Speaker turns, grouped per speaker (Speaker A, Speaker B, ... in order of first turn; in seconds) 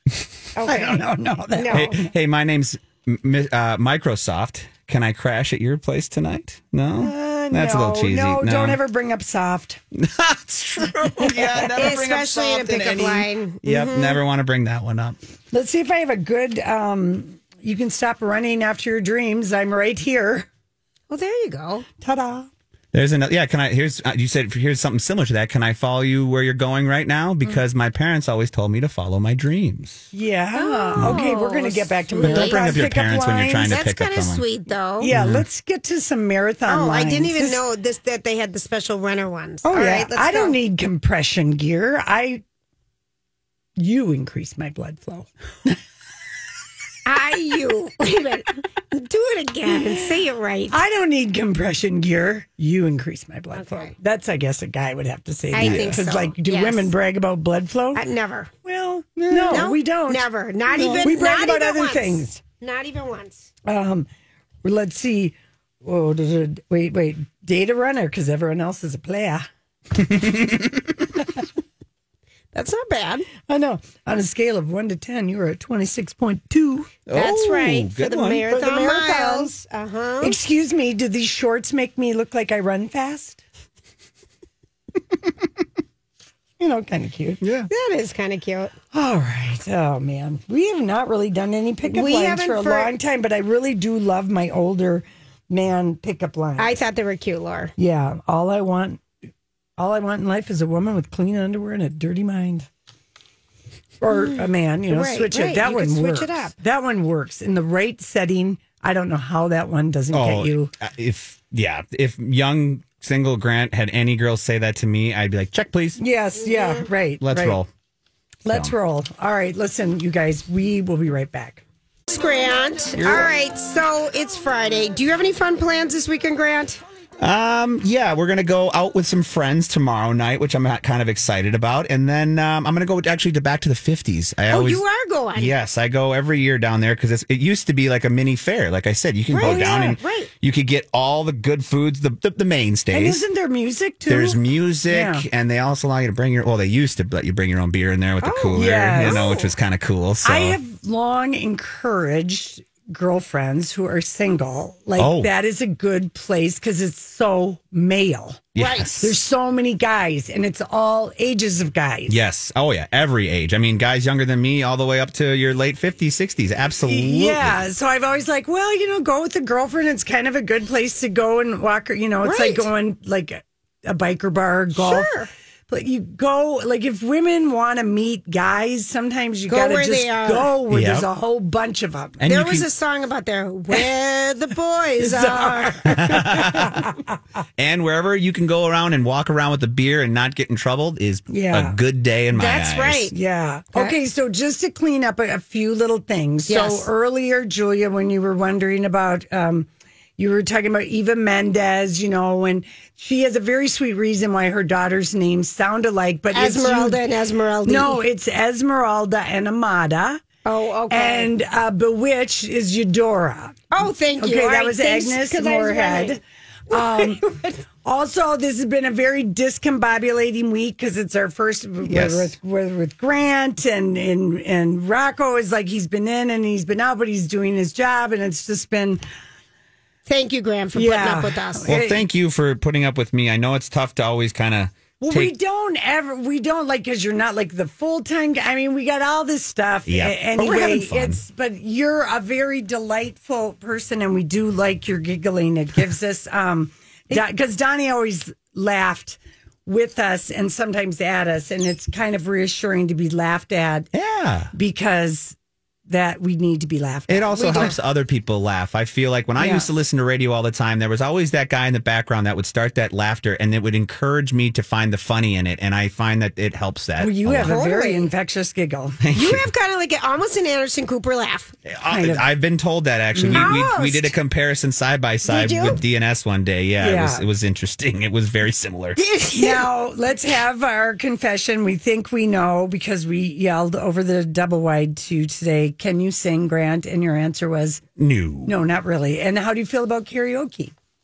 Speaker A: 0.6-2.0, 11.7-14.2, 21.1-21.9, 30.5-32.9, 33.6-35.1, 36.7-40.6, 47.1-50.8, 53.5-53.9, 55.5-56.9, 57.9-58.5, 59.3-63.5, 72.5-73.3, 77.1-80.4, 87.7-88.7, 91.9-92.9, 96.6-97.7, 104.1-106.5, 116.4-116.9, 122.1-126.8, 134.5-135.6, 139.3-140.3, 148.2-149.5, 158.6-158.9, 172.2-172.7, 174.8-175.3, 179.5-180.6, 182.2-186.1, 192.3-193.2, 196.5-196.9, 206.3-208.0, 210.4-211.3, 213.7-216.2, 216.7-217.6, 230.1-231.8, 257.4-257.8, 267.4-268.1, 269.1-271.6, 273.3-274.1, 275.2-275.8, 279.0-279.6
Speaker B: 0.7-2.1, 7.0-9.8, 11.2-12.0, 15.5-20.5, 22.0-22.5, 30.1-33.8, 35.0-37.6, 39.6-42.4, 43.8-45.8, 50.7-58.0, 58.6-62.4, 63.6-64.1, 64.6-69.5, 73.5-77.0, 78.5-79.5, 80.2-83.4, 86.6-87.4, 88.9-96.8, 97.8-99.0, 99.8-102.7, 104.0-110.7, 116.0-117.6, 118.5-121.6, 139.4-139.9, 142.9-145.2, 148.5-149.4, 150.2-162.2, 166.9-175.2, 175.7-182.2, 185.0-187.0, 191.3-191.8, 193.1-207.0, 207.7-210.2, 210.9-213.6, 214.2-217.2, 217.8-229.0, 230.7-232.0, 235.0-253.9, 254.5-255.4, 255.9-257.8, 259.4-259.7, 267.0-269.0, 271.9-272.2, 273.1-273.6, 276.8-277.2, 279.3-287.8, 288.4-290.7
Speaker C: 1.7-8.8, 9.9-15.2, 22.9-30.1, 31.0-31.2, 32.2-34.4, 35.1-35.4, 55.6-56.0, 59.4-59.6, 60.7-61.2, 70.1-70.7, 77.1-78.5, 87.4-87.7, 110.1-116.0, 117.2-117.7, 123.0-123.3, 127.2-134.8, 135.3-143.2, 144.1-150.6, 155.0-155.3, 158.5-159.1, 162.1-167.5, 180.7-181.1, 182.2-182.7, 185.9-186.8, 187.6-193.1, 221.9-222.3, 231.7-235.3, 239.9-241.2, 253.9-254.5, 257.1-267.6, 269.0-269.5, 271.7-279.0, 288.0-288.6